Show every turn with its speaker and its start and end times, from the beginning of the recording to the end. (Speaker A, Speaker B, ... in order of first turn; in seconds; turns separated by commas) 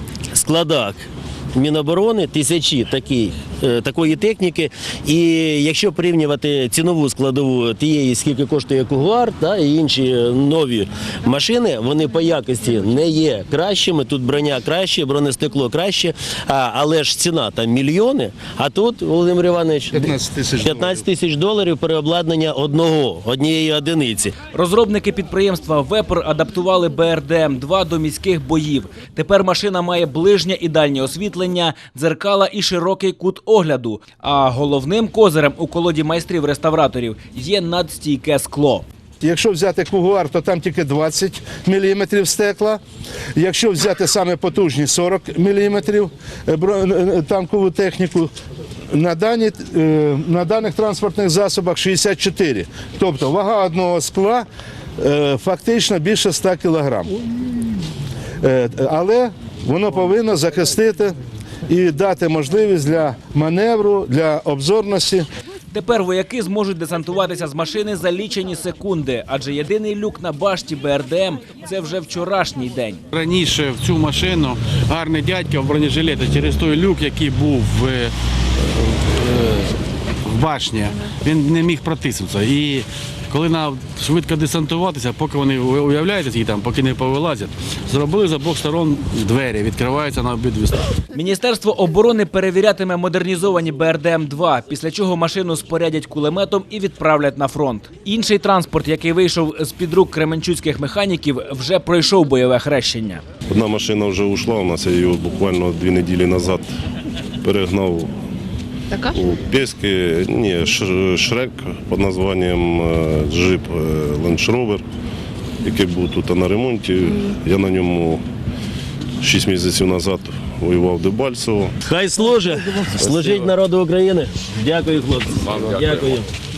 Speaker A: 0.3-1.0, Speaker A: 1.5-24.4, Speaker B: 19.9-21.1, Speaker C: 24.5-38.9, Speaker B: 39.2-42.8, Speaker B: 43.4-48.3, Speaker B: 48.9-54.5, Speaker B: 55.0-57.1, Speaker B: 58.4-61.2, Speaker B: 61.7-65.3, Speaker C: 65.7-73.0, Speaker D: 73.1-91.0, Speaker C: 91.1-103.2, Speaker E: 103.5-106.7, Speaker E: 107.4-108.2, Speaker E: 109.0-114.8, Speaker E: 115.6-118.2, Speaker E: 119.2-121.7, Speaker A: 121.8-126.3, Speaker E: 123.2-123.5